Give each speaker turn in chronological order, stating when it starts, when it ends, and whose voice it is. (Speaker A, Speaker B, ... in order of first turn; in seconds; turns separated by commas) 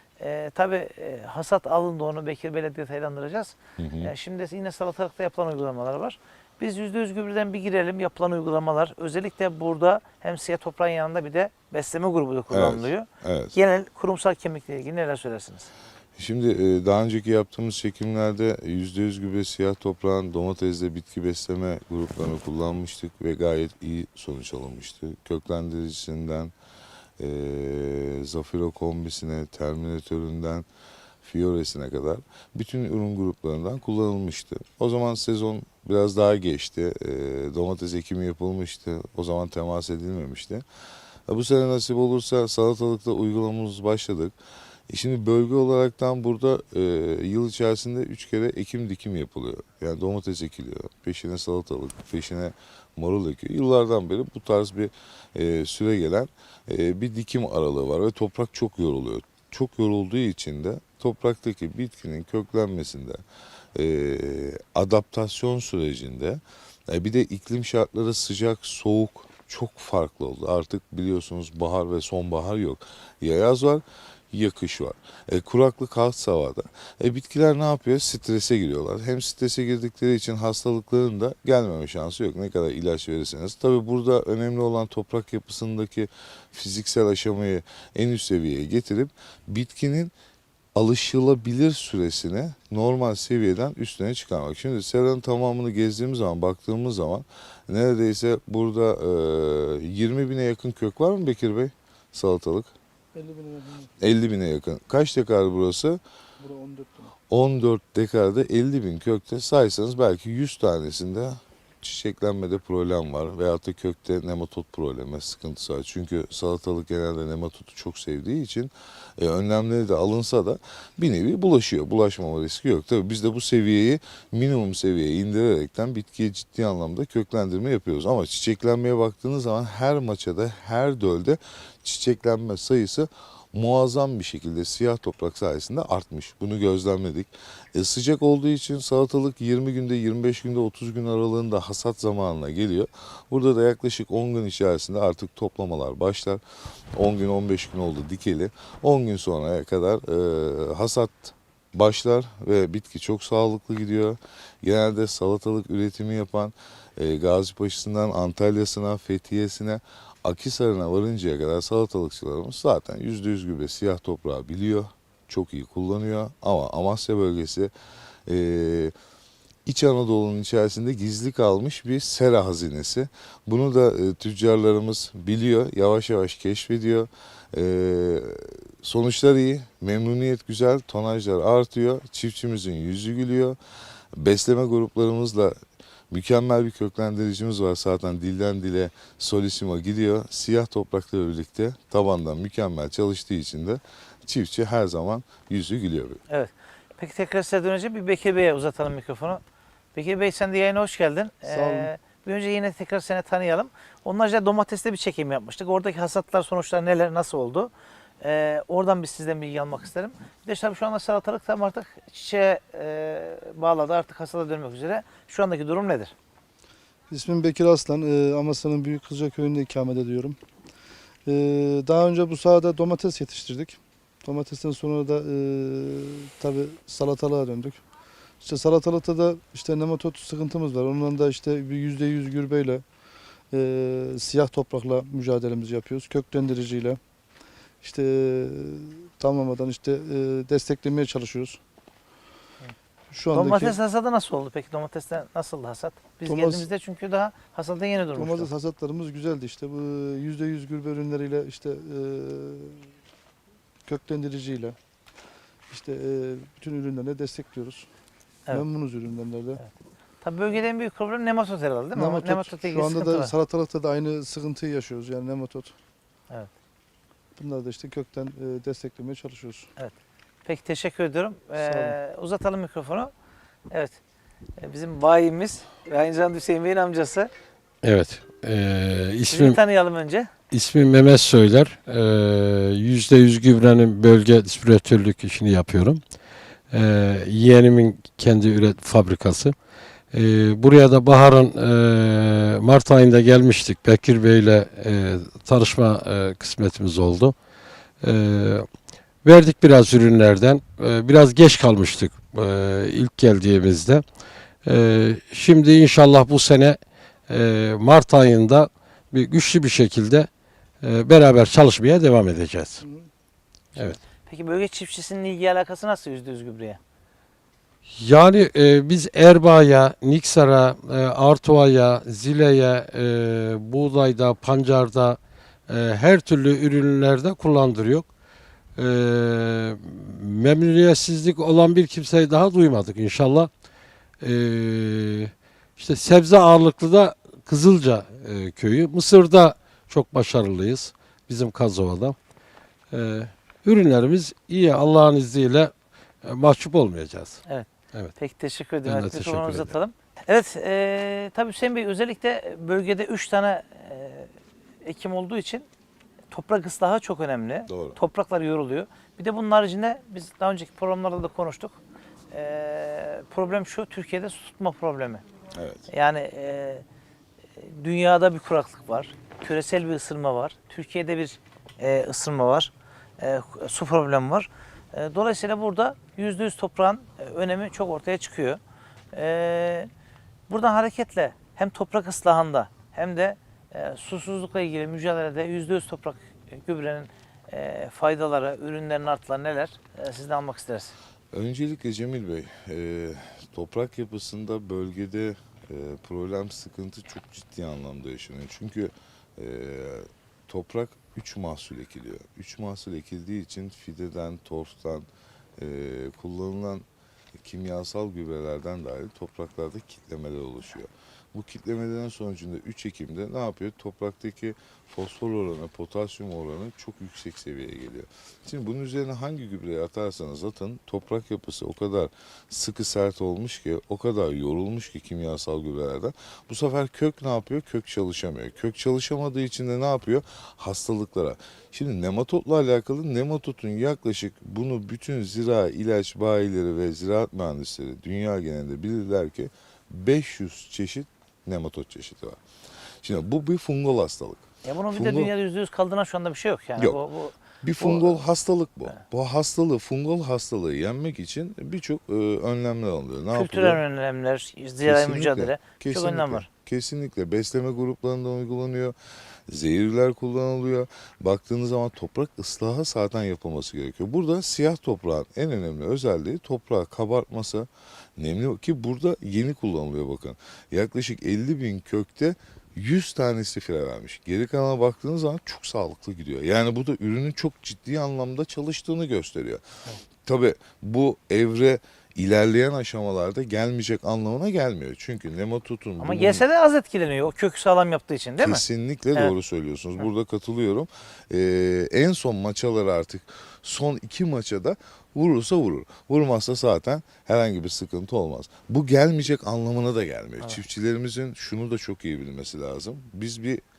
Speaker A: 0.2-15.7, Speaker B: 3.8-4.1, Speaker B: 12.5-13.6, Speaker B: 16.2-26.5, Speaker B: 27.2-30.6, Speaker B: 31.2-40.6, Speaker B: 41.3-44.4, Speaker B: 44.9-63.2, Speaker B: 63.7-90.1, Speaker B: 90.7-102.7, Speaker C: 103.1-103.9, Speaker B: 104.0-106.0, Speaker C: 106.4-107.1, Speaker B: 107.3-146.4, Speaker B: 146.9-167.7, Speaker B: 168.3-168.9, Speaker B: 169.7-183.6, Speaker B: 184.1-185.6, Speaker B: 186.1-196.2, Speaker A: 196.3-199.4, Speaker A: 199.9-216.1, Speaker C: 201.5-201.9, Speaker C: 217.1-220.4, Speaker C: 221.2-227.8, Speaker C: 228.4-232.8, Speaker C: 233.5-237.0, Speaker C: 237.8-241.6, Speaker C: 243.1-243.7, Speaker A: 243.3-248.5, Speaker C: 246.2-246.6, Speaker C: 248.1-252.9, Speaker C: 253.8-254.8, Speaker C: 255.7-257.9, Speaker C: 258.5-259.6, Speaker A: 259.6-263.3, Speaker C: 261.9-265.7, Speaker C: 267.4-269.7, Speaker A: 269.8-273.1, Speaker C: 271.6-271.9, Speaker A: 273.7-274.0, Speaker A: 274.6-277.3, Speaker D: 277.8-279.6, Speaker A: 279.3-280.3, Speaker D: 280.5-286.0, Speaker D: 286.7-289.5, Speaker D: 290.1-297.3, Speaker D: 298.0-298.7, Speaker D: 299.2-304.0, Speaker D: 304.6-310.3, Speaker D: 310.8-312.8, Speaker C: 312.8-313.1, Speaker A: 314.2-316.8, Speaker D: 317.9-328.1, Speaker D: 328.8-333.5, Speaker D: 334.2-342.1, Speaker D: 342.9-345.7, Speaker D: 346.2-347.4, Speaker A: 347.5-354.3, Speaker D: 348.8-349.7, Speaker A: 354.8-355.7, Speaker A: 356.3-361.8, Speaker B: 357.7-358.0, Speaker A: 362.3-365.2, Speaker B: 365.6-365.9, Speaker A: 365.9-366.8, Speaker A: 367.6-378.6, Speaker A: 379.1-379.9, Speaker A: 380.5-390.9, Speaker B: 391.3-406.8, Speaker B: 407.4-442.4, Speaker B: 443.0-445.3, Speaker A: 444.6-448.2, Speaker B: 447.6-453.8, Speaker A: 453.3-456.5, Speaker B: 454.8-458.9, Speaker B: 459.5-479.6, Speaker B: 480.2-486.4, Speaker A: 486.0-488.6, Speaker B: 488.4-503.6